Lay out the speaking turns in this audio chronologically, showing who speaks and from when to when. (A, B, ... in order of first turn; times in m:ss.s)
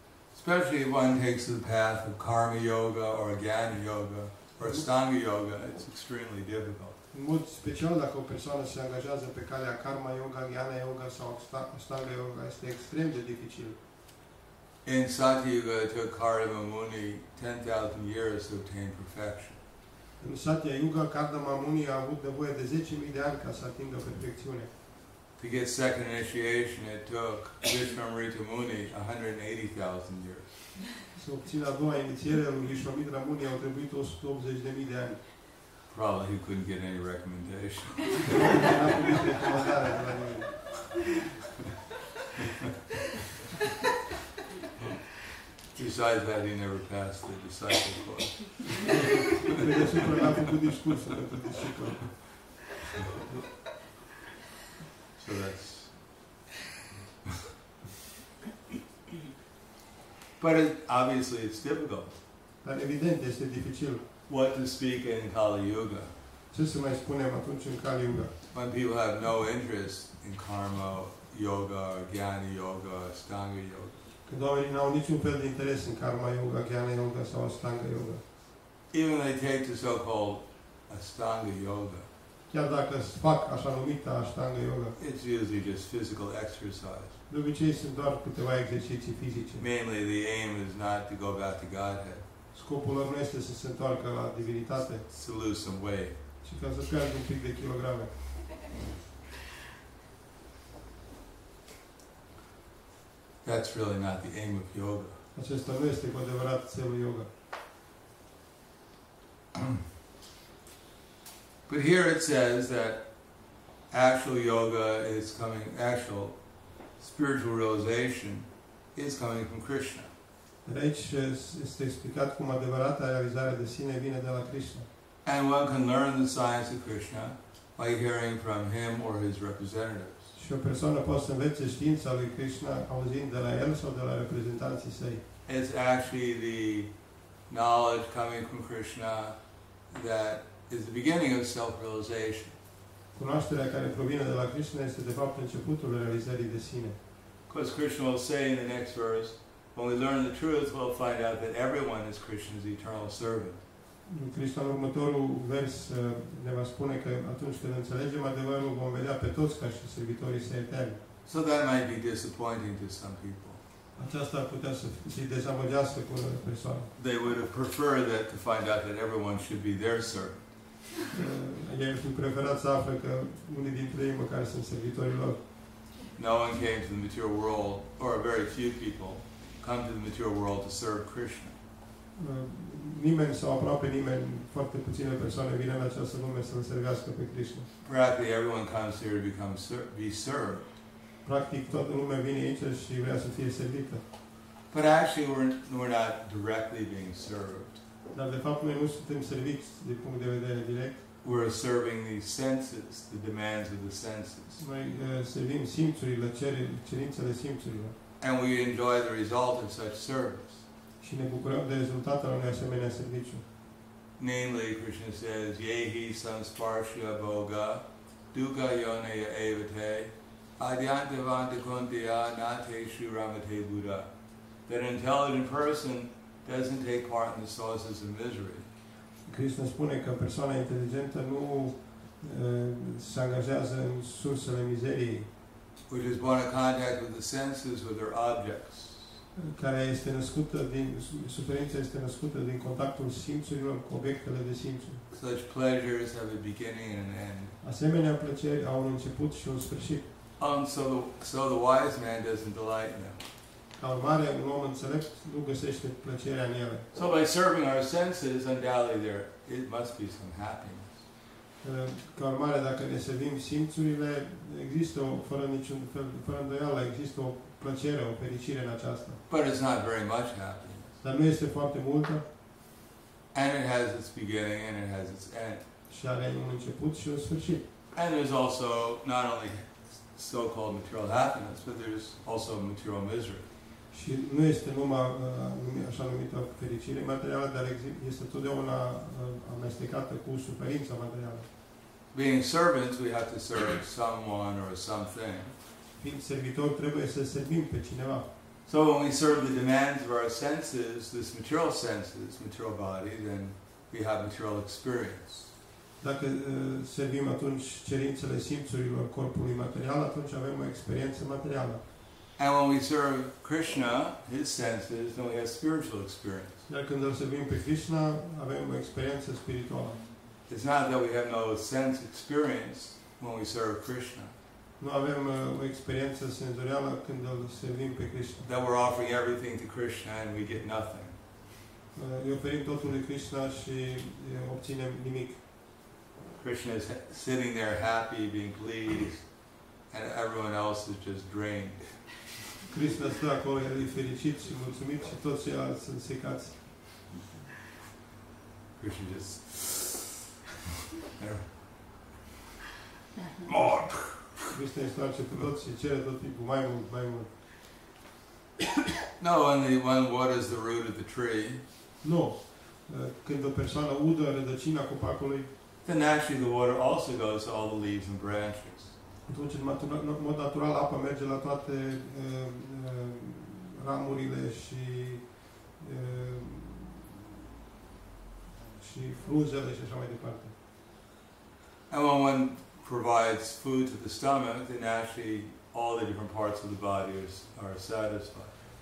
0:00.3-0:07.0 A
0:07.1-0:13.8 B
0:14.8-0:19.6 A
0:20.2-0:24.7 B
0:25.4-0:30.6 A
0:31.1-0:35.2 B
0:35.9-0:38.7 A
0:38.2-0:40.9 B
0:45.7-0:48.9 A
0:49.3-0:52.4 B
0:55.2-0:56.2 A
1:00.4-1:02.1 A
1:02.6-1:04.0 B
1:04.3-1:06.1 A
1:06.5-1:08.3 B
1:08.5-1:14.0 A
1:14.3-1:18.2 B
1:18.9-1:22.0 A
1:22.5-1:24.9 B
1:25.0-1:27.2 A
1:27.3-1:29.6 B
1:29.6-1:32.2 A
1:32.5-1:35.0 B
1:35.1-1:36.1 A
1:36.4-1:38.4 B
1:43.4-1:45.2 A
1:45.3-1:47.3 B
1:51.7-1:53.0 A
1:53.9-1:56.3 A
1:57.0-2:00.1 A
2:00.6-2:04.8 B
2:05.2-2:10.3 A
2:10.3-2:15.2 B
2:15.4-2:16.9 A
2:17.5-2:19.4 A
2:19.9-2:22.6 A
2:23.1-2:27.0 B
2:27.5-2:33.6 A
2:34.0-2:41.0 B
2:41.2-2:43.6 A
2:44.0-2:46.9 B
2:47.0-2:50.4 A
2:51.1-2:55.4 B
2:56.2-3:01.6 A
3:02.2-3:07.7 B
3:07.8-3:10.7 A
3:11.2-3:14.0 B
3:14.7-3:17.8 A
3:18.1-3:21.0 B
3:21.2-3:24.6 A
3:24.6-3:27.9 B
3:28.2-3:30.6 A
3:31.0-3:33.4 B
3:34.2-3:44.1 A
3:44.6-3:48.7 A
3:49.2-3:55.3 B
3:55.9-3:59.2 A
3:59.4-4:05.0 B
4:05.1-4:07.5 A
4:07.6-4:10.1 B
4:10.4-4:13.2 A
4:13.8-4:16.9 B
4:16.9-4:21.0 A
4:21.6-4:29.2 B
4:29.3-4:30.9 A
4:31.0-4:32.2 B
4:33.3-4:35.6 A
4:35.9-4:37.6 B
4:37.9-4:43.5 A
4:43.9-4:51.5 B
4:52.1-4:55.5 A
4:56.0-4:58.3 B
4:58.6-5:05.5 A
5:06.0-5:11.8 B
5:12.4-5:16.6 A
5:16.7-5:20.0 B
5:20.5-5:24.3 A
5:24.8-5:28.4 B
5:28.4-5:31.2 A
5:31.9-5:35.4 B
5:36.4-5:42.2 A
5:42.7-5:47.0 B
5:48.8-5:50.0 A
5:51.1-5:52.1 A
5:53.4-5:54.5 A
5:54.5-5:57.4 B
5:59.2-6:01.6 A
6:02.0-6:05.5 B
6:05.8-6:08.9 A
6:09.2-6:17.3 B
6:18.5-6:20.5 B
6:21.9-6:28.5 A